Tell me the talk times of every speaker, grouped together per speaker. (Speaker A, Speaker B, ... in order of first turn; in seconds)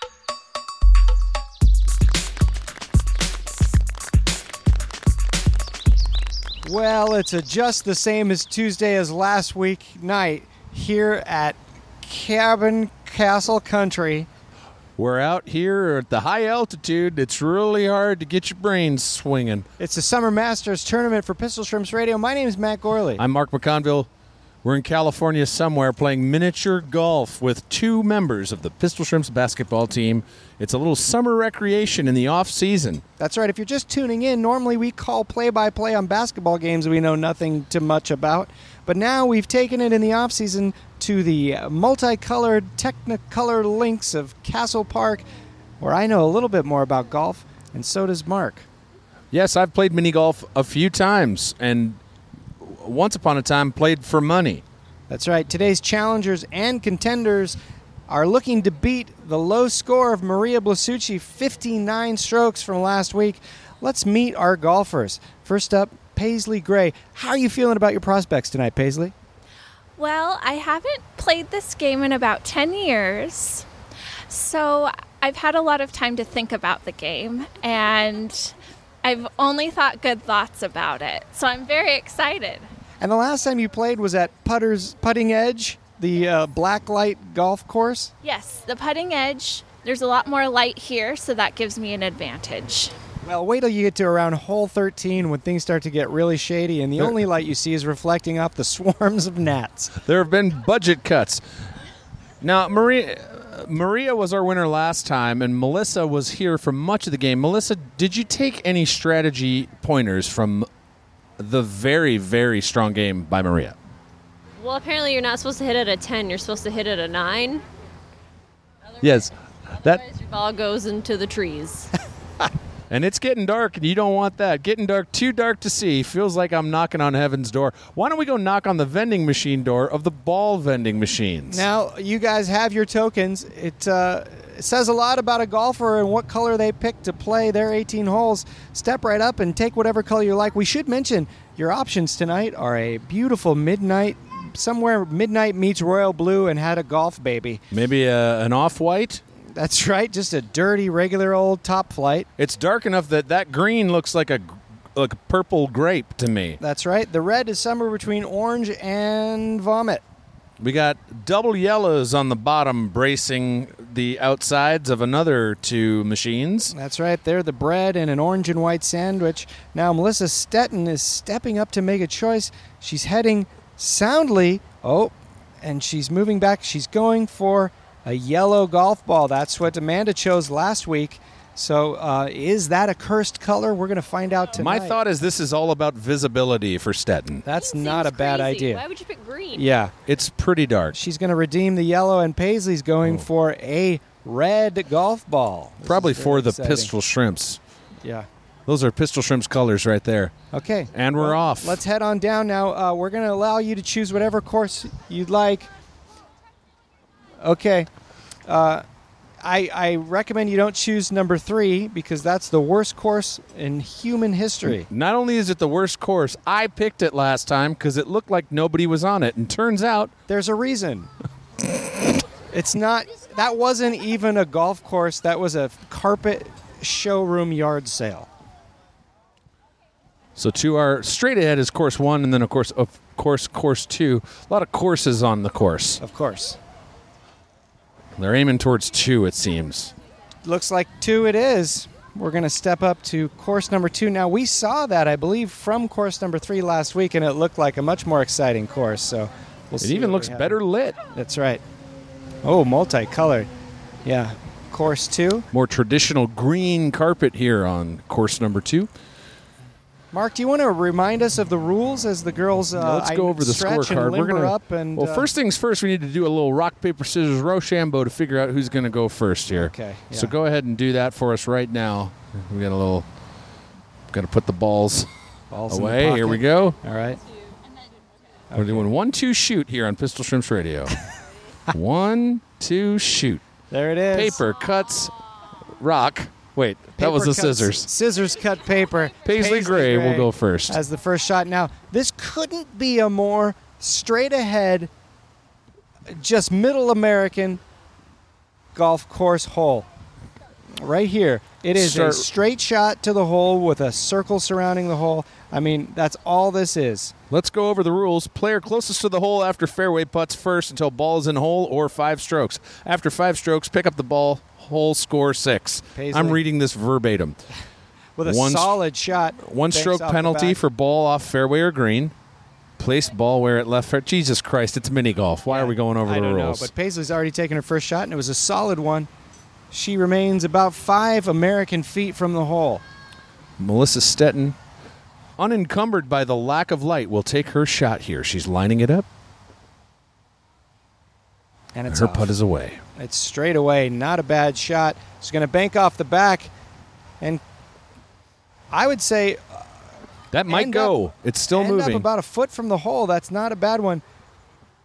Speaker A: 6.6-14.3, 19.8-23.2, 33.2-45.3, 45.8-48.7, 55.1-57.6, 58.1-69.1, 83.0-88.1, 93.2-100.0, 131.5-147.6, 149.6-152.3, 156.6-160.0, 166.7-185.0, 187.4-188.8, 189.6-189.9, 190.9-196.9, 200.5-205.7, 207.4-207.9, 208.5-208.8, 209.4-214.9, 220.3-221.1, 222.5-228.3, 236.0-236.6, 240.4-250.6, 251.1-251.6, 252.4-253.5, 254.1-255.5, 260.1-265.3, 269.5-270.4, 275.5-277.2, 278.5-278.9, 283.7-284.4, 287.0-294.9, 296.1-297.6, 298.8-299.9, 300.8-307.1, 315.9-316.4, 318.2-320.6, 325.5-329.1, 329.7-332.8, 341.7-342.4, 343.0-346.5, 348.7-349.6, 350.5-351.0, 351.5-354.0
Speaker B: 15.0-19.7, 23.2-24.1, 24.6-33.0, 49.3-52.0, 52.6-54.6, 100.0-101.4, 102.4-110.7, 111.4-113.8, 119.0-120.0, 122.9-131.7, 147.7-149.2, 152.4-156.6, 160.6-166.7, 184.6-187.4, 190.1-191.0, 195.8-197.6, 198.7-200.3, 200.9-201.8, 214.9-220.1, 230.4-236.0, 238.2-239.9, 249.8-251.0, 255.5-258.9, 262.8-273.1, 274.1-275.1, 275.7-276.8, 278.5-280.9, 281.7-283.4, 284.1-285.1, 285.8-287.9, 289.2-290.8, 301.8-302.3, 307.3-317.4, 318.2-318.8, 319.4-322.1, 322.8-326.7, 333.6-334.6, 335.4-339.1, 341.9-342.8, 350.3-352.1
Speaker C: 70.0-73.7, 74.3-82.7, 88.2-92.9
Speaker D: 114.6-117.6, 119.9-121.9, 187.6-189.7